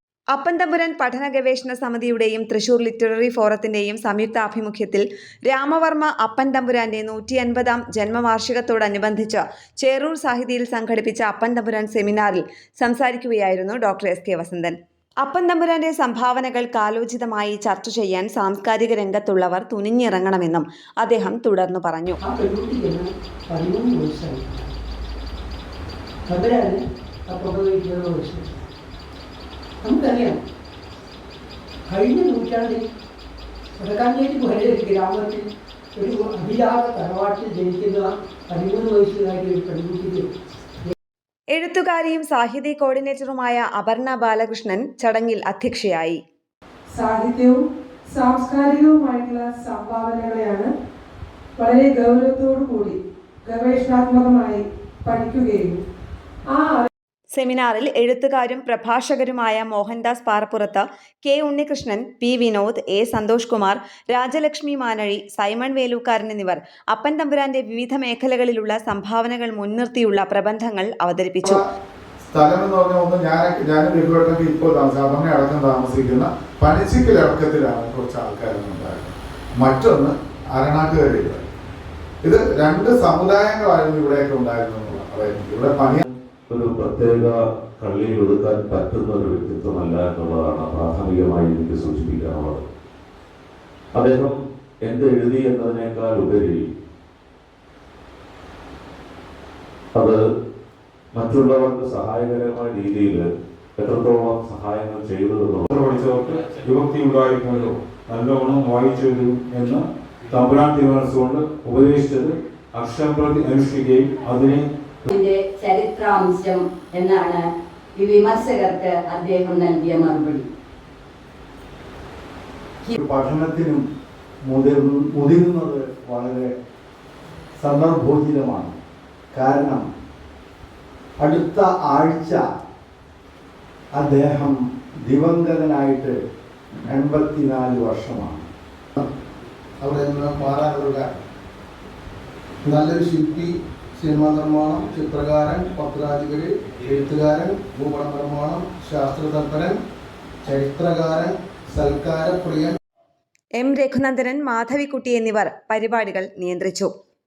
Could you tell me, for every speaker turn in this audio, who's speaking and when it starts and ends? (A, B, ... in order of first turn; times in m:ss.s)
0:00.3-0:22.2 A
0:22.2-0:24.7 B
0:26.3-0:28.6 B
0:29.8-0:30.4 B
0:31.9-0:32.9 B
0:33.8-0:40.3 B
0:41.5-0:46.2 A
0:46.9-0:50.7 C
0:51.6-0:55.8 C
0:56.5-0:56.9 C
0:57.3-1:11.6 A
1:12.3-1:21.4 D
1:22.2-1:26.0 D
1:26.5-1:32.6 E
1:34.0-1:36.6 E
1:41.1-1:45.7 E
1:45.7-1:55.1 F
1:55.1-1:57.4 G
1:58.0-2:00.5 G
2:02.9-2:03.8 H
2:04.5-2:06.5 H
2:07.6-2:08.7 H
2:09.3-2:09.8 H
2:11.2-2:12.4 H
2:13.9-2:16.2 H
2:16.9-2:18.4 H
2:19.8-2:21.2 I
2:22.6-2:29.8 I
2:30.4-2:32.8 I
2:33.6-2:36.9 A